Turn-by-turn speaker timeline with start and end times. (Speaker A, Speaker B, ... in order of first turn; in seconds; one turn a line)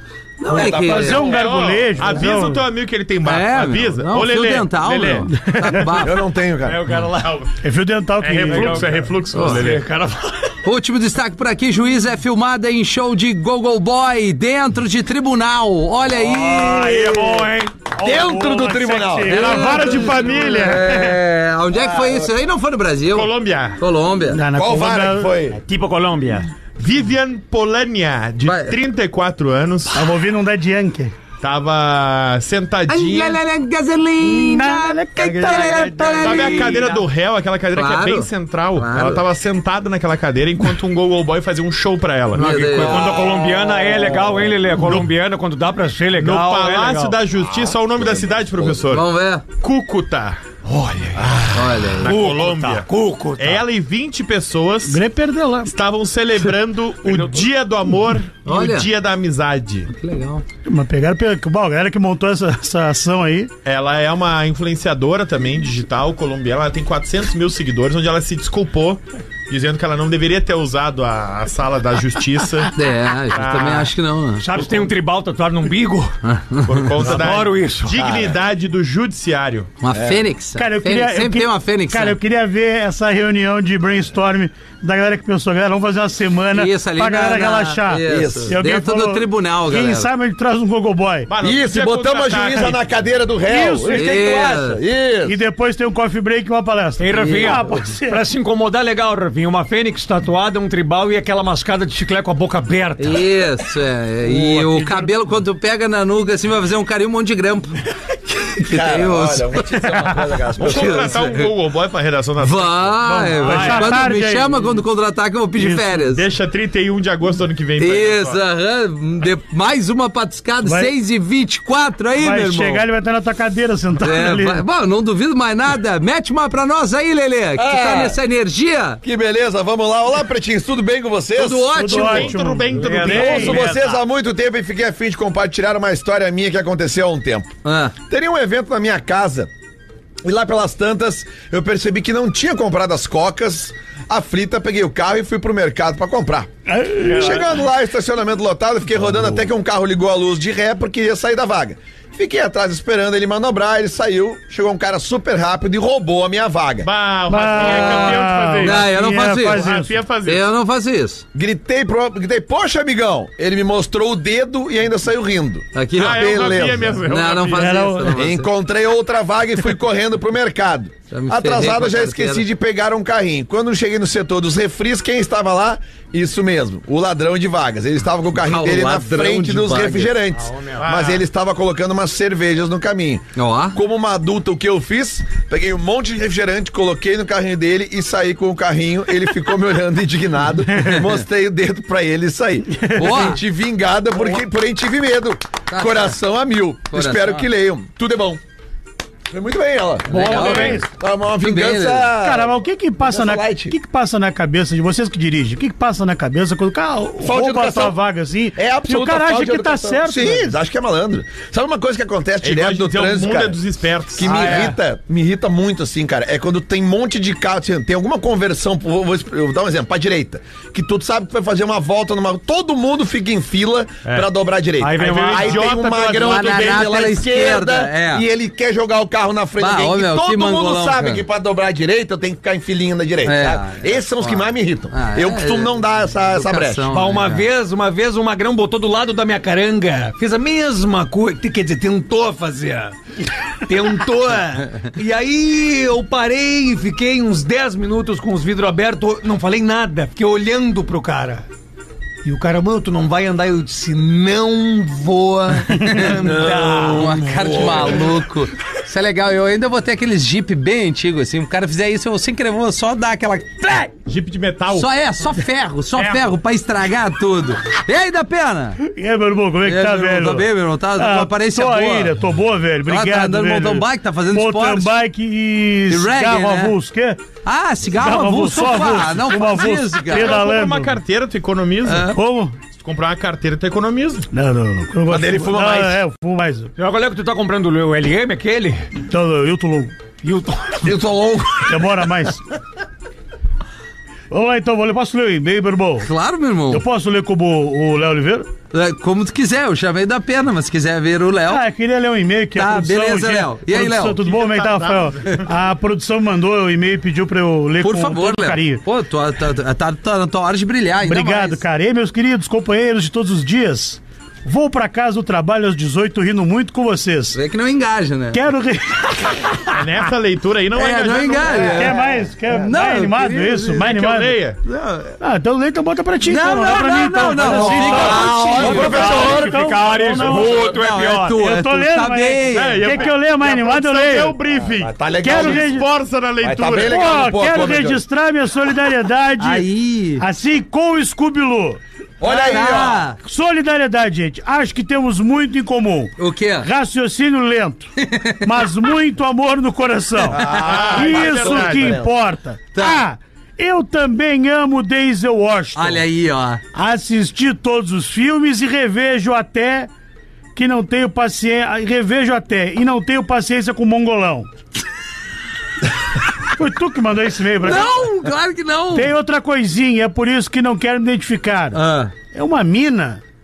Speaker A: 0.4-1.4
Speaker B: 0.5-2.6
Speaker C: 0.9-1.2
Speaker D: 0.9-5.3
Speaker A: 3.2-6.2
Speaker B: 5.3-5.9
Speaker E: 5.9-6.8
Speaker C: 6.6-7.5
Speaker D: 7.2-7.5
Speaker B: 7.6-8.9
Speaker D: 8.2-9.9
Speaker C: 8.3-10.6
Speaker A: 9.3-9.7
Speaker A: 10.6-17.1
Speaker C: 16.2-17.7
Speaker B: 16.3-20.8
Speaker E: 18.0-19.6
Speaker A: 19.3-24.4
Speaker D: 19.3-21.2
Speaker E: 21.7-22.3
Speaker D: 23.1-23.8
Speaker B: 24.3-25.4
Speaker E: 24.5-25.6
Speaker C: 25.5-26.5
Speaker D: 26.8-30.1
Speaker A: 28.4-28.8
Speaker B: 29.9-31.1
Speaker D: 31.4-33.4
Speaker A: 32.9-37.0
Speaker B: 34.2-36.4
Speaker C: 35.2-37.0
Speaker D: 36.2-43.0
Speaker A: 37.7-39.2
Speaker C: 42.3-47.2
Speaker A: 42.3-43.3
Speaker D: 44.7-45.1
Speaker D: 46.2-49.1
Speaker A: 48.6-49.4
Speaker D: 49.6-50.4
Speaker C: 50.6-53.6
Speaker D: 51.3-55.0
Speaker A: 51.5-52.2
Speaker B: 54.8-55.7
Speaker D: 55.6-59.9
Speaker C: 57.0-57.4
Speaker A: 58.4-58.9
Speaker A: 59.9-60.4
Speaker B: 60.7-63.5
Speaker D: 63.6-72.7
Speaker A: 72.7-74.6
Speaker D: 73.3-73.9
Speaker C: 74.4-76.1
Speaker A: 76.2-76.9
Speaker D: 76.6-79.7
Speaker C: 77.0-78.3
Speaker A: 79.8-82.2
Speaker E: 79.9-80.2
Speaker B: 80.6-91.3
Speaker A: 86.5-90.1
Speaker E: 88.1-88.5
Speaker D: 91.3-92.8
Speaker E: 91.4-95.4
Speaker B: 93.5-94.1
Speaker A: 93.9-94.8
Speaker B: 95.2-98.2
Speaker C: 97.0-103.3
Speaker A: 97.2-97.6
Speaker A: 103.0-111.5
Speaker B: 104.7-105.0
Speaker E: 108.6-111.3
Speaker D: 110.6-113.2
Speaker A: 112.4-116.3
Speaker B: 113.0-114.6
Speaker C: 113.4-113.8
Speaker D: 115.9-118.4
Speaker A: 117.8-122.8
Speaker B: 120.6-120.9
Speaker B: 122.2-124.6
Speaker A: 124.0-129.0
Speaker E: 127.5-128.2
Speaker E: 129.0-131.8
Speaker A: 131.3-132.3
Speaker B: 131.7-133.6
Speaker D: 131.8-133.9
Speaker C: 132.7-134.0
Speaker E: 133.0-139.5
Speaker A: 137.6-137.9
Speaker E: 140.2-156.9
Speaker B: 146.7-147.6
Speaker D: 156.8-158.8
Speaker B: 157.3-159.9
Speaker A: 157.6-159.7
Speaker D: 159.5-160.4
Speaker A: 160.2-161.2
Speaker E: 161.3-166.9
Speaker A: 165.7-168.5
Speaker D: 166.0-167.9
Speaker B: 167.6-168.1
Speaker E: 168.1-198.4
Speaker A: 171.1-172.4
Speaker A: 178.4-180.2
Speaker C: 180.3-180.8
Speaker D: 180.8-181.2
Speaker A: 183.3-183.8
Speaker B: 192.7-193.3
Speaker A: 192.9-193.4
Speaker A: 195.7-196.2
Speaker A: 196.9-197.5
Speaker E: 199.3-203.7
Speaker A: 200.1-200.9
Speaker D: 200.2-200.8
Speaker B: 200.3-200.8
Speaker A: 201.4-202.1
Speaker B: 202.2-210.6
Speaker E: 207.2-208.0
Speaker E: 208.5-213.6
Speaker D: 212.4-214.7
Speaker E: 214.2-236.9
Speaker C: 214.2-214.8
Speaker C: 224.8-225.7
Speaker D: 225.0-227.0
Speaker A: 226.1-228.2
Speaker A: 229.6-231.2
Speaker A: 233.2-237.5
Speaker C: 236.9-242.9
Speaker C: 243.7-251.4
Speaker C: 252.2-257.6
Speaker A: 255.8-256.3
Speaker E: 256.1-258.2
Speaker A: 256.9-263.9
Speaker D: 264.1-264.9
Speaker A: 264.7-268.8
Speaker D: 265.9-266.3
Speaker B: 268.8-277.2
Speaker A: 269.6-272.1
Speaker A: 272.9-275.0
Speaker A: 275.9-276.7
Speaker A: 277.4-280.4
Speaker B: 277.9-280.9
Speaker D: 280.1-282.1
Speaker A: 281.9-282.1
Speaker B: 282.1-282.6
Speaker D: 282.7-284.3
Speaker B: 284.3-286.7
Speaker E: 285.1-286.0
Speaker C: 286.8-288.9
Speaker B: 289.0-289.9
Speaker C: 290.2-290.9
Speaker E: 290.8-292.1
Speaker B: 291.7-292.4
Speaker B: 294.3-296.1
Speaker A: 296.0-296.8
Speaker B: 296.7-298.5
Speaker A: 298.7-301.6
Speaker B: 301.5-308.8
Speaker A: 302.5-304.2
Speaker D: 304.2-305.5
Speaker A: 307.8-311.6
Speaker B: 311.0-317.4
Speaker A: 317.3-318.4
Speaker B: 318.3-319.5
Speaker D: 319.7-321.9
Speaker A: 320.7-323.9
Speaker B: 321.6-324.4
Speaker D: 323.8-324.6
Speaker A: 324.6-325.1
Speaker B: 325.2-330.6
Speaker A: 326.2-329.2
Speaker E: 327.4-329.6
Speaker C: 328.0-331.4
Speaker D: 328.6-329.1
Speaker A: 330.6-333.0
Speaker B: 331.3-334.4
Speaker D: 332.5-336.9
Speaker E: 334.5-335.8
Speaker B: 335.2-335.9
Speaker E: 336.4-338.0
Speaker B: 336.8-339.7
Speaker A: 339.4-340.2
Speaker B: 340.2-341.8
Speaker E: 342.2-343.0
Speaker A: 342.2-343.2
Speaker B: 343.2-347.9
Speaker A: 346.2-346.7
Speaker A: 348.0-348.6
Speaker B: 348.4-356.0
Speaker E: 350.3-352.1
Speaker A: 350.4-350.6
Speaker D: 350.4-352.0
Speaker A: 352.7-353.0
Speaker A: 355.7-356.6
Speaker B: 356.7-359.9
Speaker B: 360.5-364.5
Speaker B: 366.5-368.1
Speaker A: 367.6-369.1
Speaker B: 368.9-371.8
Speaker A: 371.7-372.1
Speaker B: 372.3-373.2